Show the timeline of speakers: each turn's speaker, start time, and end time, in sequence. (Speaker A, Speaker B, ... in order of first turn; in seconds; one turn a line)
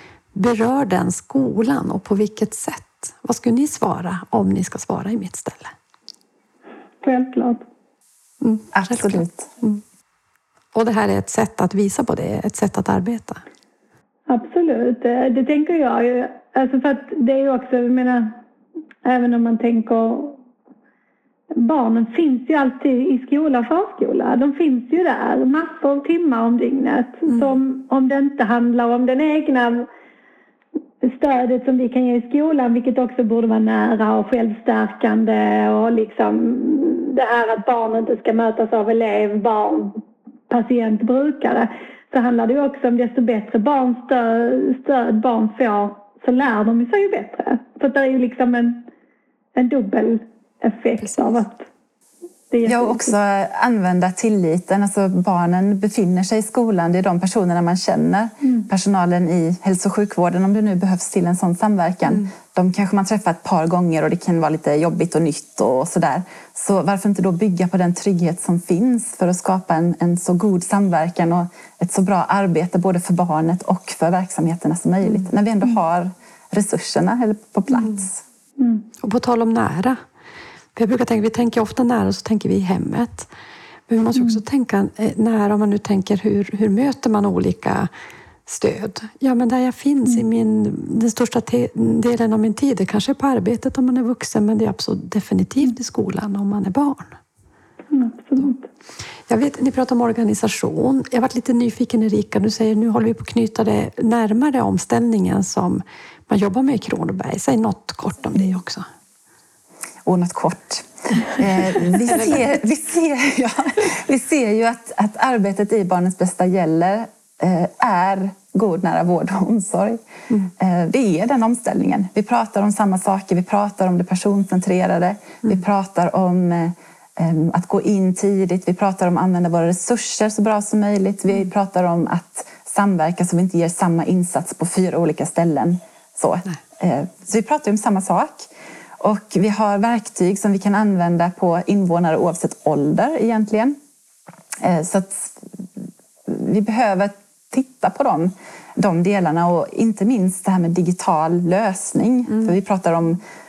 Speaker A: 0.3-5.7
Speaker B: 7.0-7.6
Speaker A: 8.4-9.8
Speaker C: 8.7-9.5
Speaker A: 10.7-13.4
Speaker B: 14.3-18.4
Speaker B: 19.0-20.4
Speaker B: 21.5-29.9
Speaker B: 31.0-48.9
Speaker B: 49.5-51.6
Speaker A: 51.0-51.4
Speaker B: 52.5-53.1
Speaker C: 52.6-78.2
Speaker B: 78.6-78.8
Speaker A: 79.0-80.0
Speaker A: 80.7-83.3
Speaker A: 83.9-87.9
Speaker A: 88.5-97.2
Speaker B: 97.9-98.7
Speaker A: 99.3-108.8
Speaker C: 110.0-120.0
Speaker C: 120.6-138.5
Speaker C: 139.0-143.8
Speaker C: 144.6-153.2